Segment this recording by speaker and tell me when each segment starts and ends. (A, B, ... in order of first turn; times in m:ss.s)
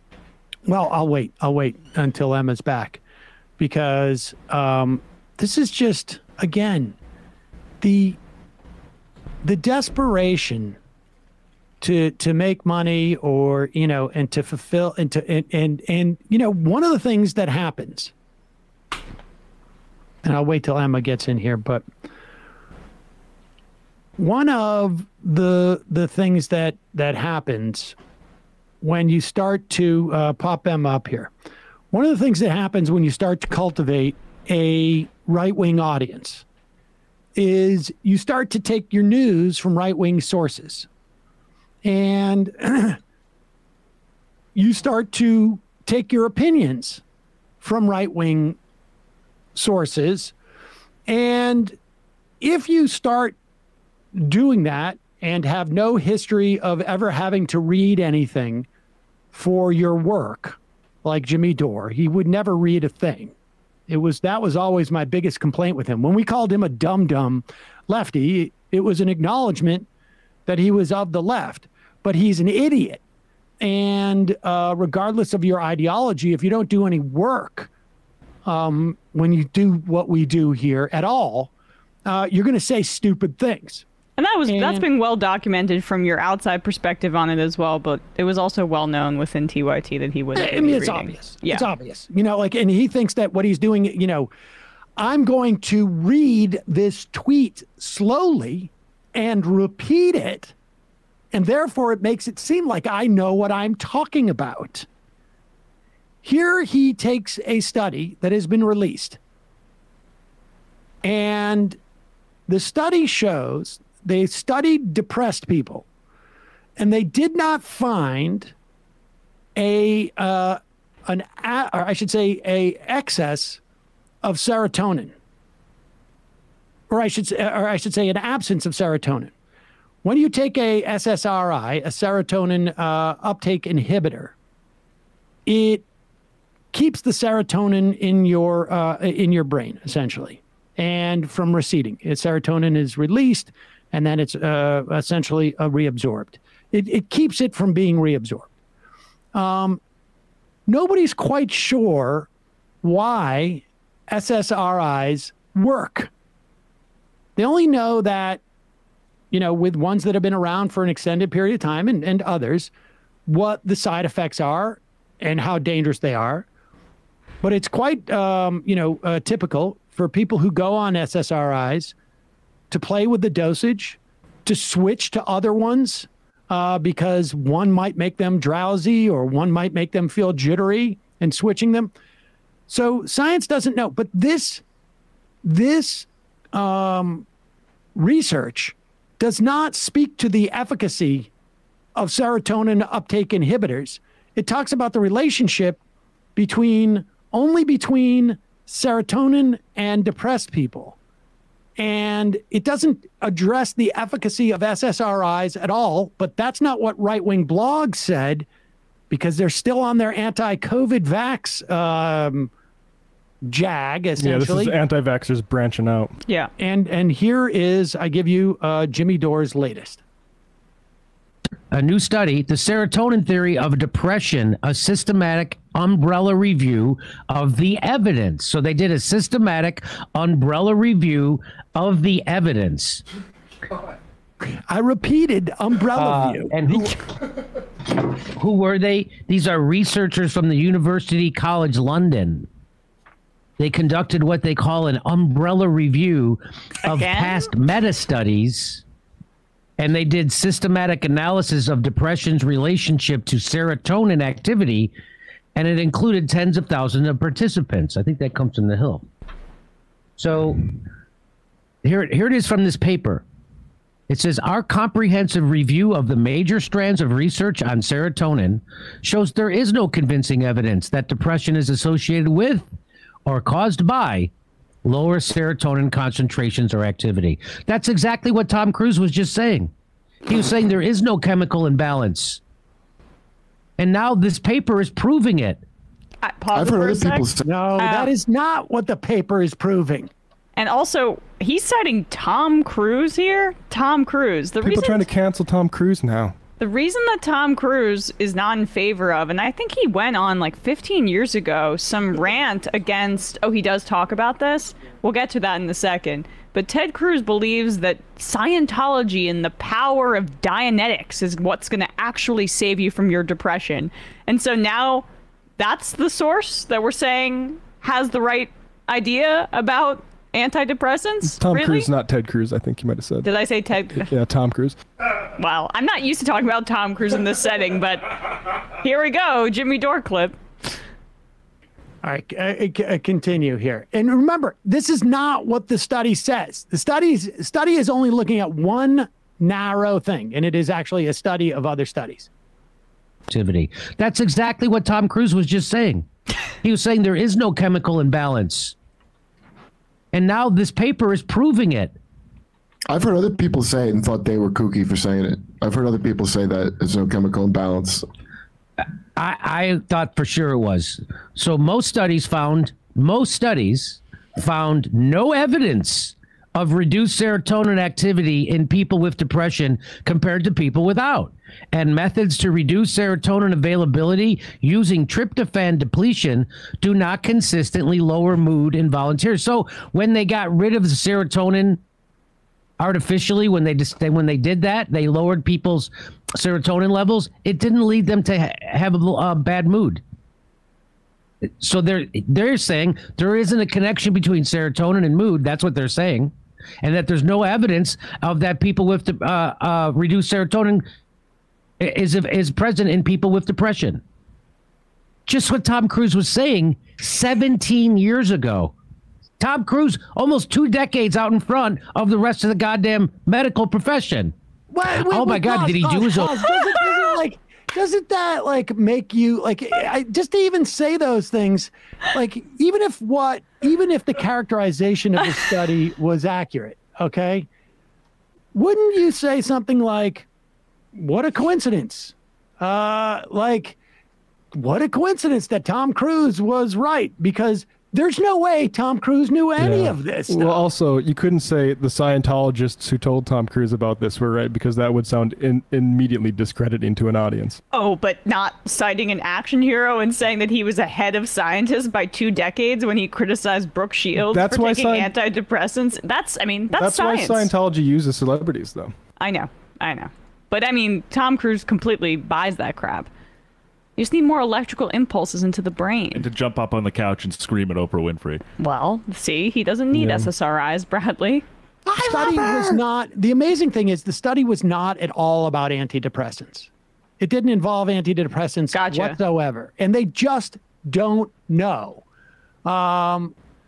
0:00.7-0:03.0 A
0:03.6-0:07.0 A
0:07.8-0:08.2 A
0:09.4-0:10.8 A
0:11.8-0:18.1 A
0:20.2-0:21.8 A
0:24.2-0:28.0 A
0:28.8-0:31.3 A
0:31.9-0:36.4 A
0:37.4-0:40.9 A
0:41.8-0:43.0 A
0:44.5-0:47.0 A
0:47.6-0:48.6 A
0:49.5-0:50.3 A
0:51.1-0:51.8 A
0:52.4-0:53.4 A
0:54.1-0:58.7 A
0:59.3-1:03.3 A
1:03.9-1:09.9 A
1:10.4-1:13.0 A
1:13.6-1:17.7 A
1:18.4-1:21.5 A
1:22.0-1:23.8 A
1:24.2-1:31.7 B
1:24.4-1:24.8 A
1:30.3-1:34.3 A
1:35.0-1:40.5 A
1:41.3-1:44.9 A
1:46.2-1:49.2 A
1:51.0-1:51.8 A
1:52.5-1:55.8 A
1:56.8-1:58.5 A
1:59.6-2:03.6 A
2:04.2-2:05.1 A
2:06.9-2:09.3 A
2:10.0-2:14.3 A
2:15.4-2:15.8 A
2:16.7-2:28.5 A
2:29.3-2:29.8 A
2:30.7-2:32.3 A
2:32.8-2:36.1 A
2:37.4-2:38.4 A
2:39.3-2:42.7 A
2:43.3-2:46.5 A
2:47.4-2:51.9 A
2:52.7-3:01.9 A
3:02.7-3:04.6 A
3:05.4-3:07.3 A
3:08.0-3:11.3 A
3:12.0-3:15.8 A
3:16.4-3:21.0 A
3:21.8-3:28.5 A
3:29.1-3:32.5 A
3:33.5-3:34.7 A
3:34.2-3:36.2 C
3:36.6-3:40.0 A
3:41.7-3:53.0 D
3:54.7-3:56.8 A
3:56.0-3:56.9 D
3:57.9-4:02.5 D
4:03.6-4:08.8 D
4:06.8-4:07.4 B
4:09.8-4:14.9 D
4:15.5-4:19.0 D
4:20.2-4:20.6 D
4:21.8-4:23.2 D
4:24.1-4:32.7 D
4:33.2-4:34.3 D
4:34.8-4:39.7 D
4:40.3-4:42.4 D
4:43.8-4:45.6 D
4:46.2-4:47.2 B
4:46.5-4:47.5 E
4:47.4-4:50.1 A
4:47.8-4:48.1 B
4:50.6-4:55.1 B
4:54.6-4:56.3 C
4:56.6-5:15.0 B
5:15.6-5:21.9 B
5:21.2-5:23.3 C
5:23.2-5:24.1 B
5:23.9-5:24.8 C
5:25.4-5:30.4 B
5:32.0-5:42.3 A
5:43.3-5:46.1 D
5:46.6-5:48.7 D
5:50.1-5:52.0 D
5:52.9-5:58.0 E
5:59.2-6:21.8 D
6:22.8-6:30.0 D
6:31.4-6:40.8 D
6:41.8-6:44.0 D
6:45.3-6:48.7 D
6:49.4-6:54.3 D
6:54.7-7:07.5 A
6:54.9-6:56.3 D
7:08.5-7:10.3 A
7:10.9-7:13.8 A
7:14.5-7:20.6 A
7:19.6-7:27.6 C
7:27.7-7:37.5 B
7:34.1-7:35.1 C
7:36.7-7:38.9 C
7:39.2-7:43.1 B
7:44.0-7:46.3 B
7:46.1-7:48.4 F
7:48.6-7:51.4 B
7:49.9-7:50.3 C
7:51.9-8:02.0 A
7:52.0-7:52.7 B
7:58.7-7:59.2 B
8:02.6-8:03.3 A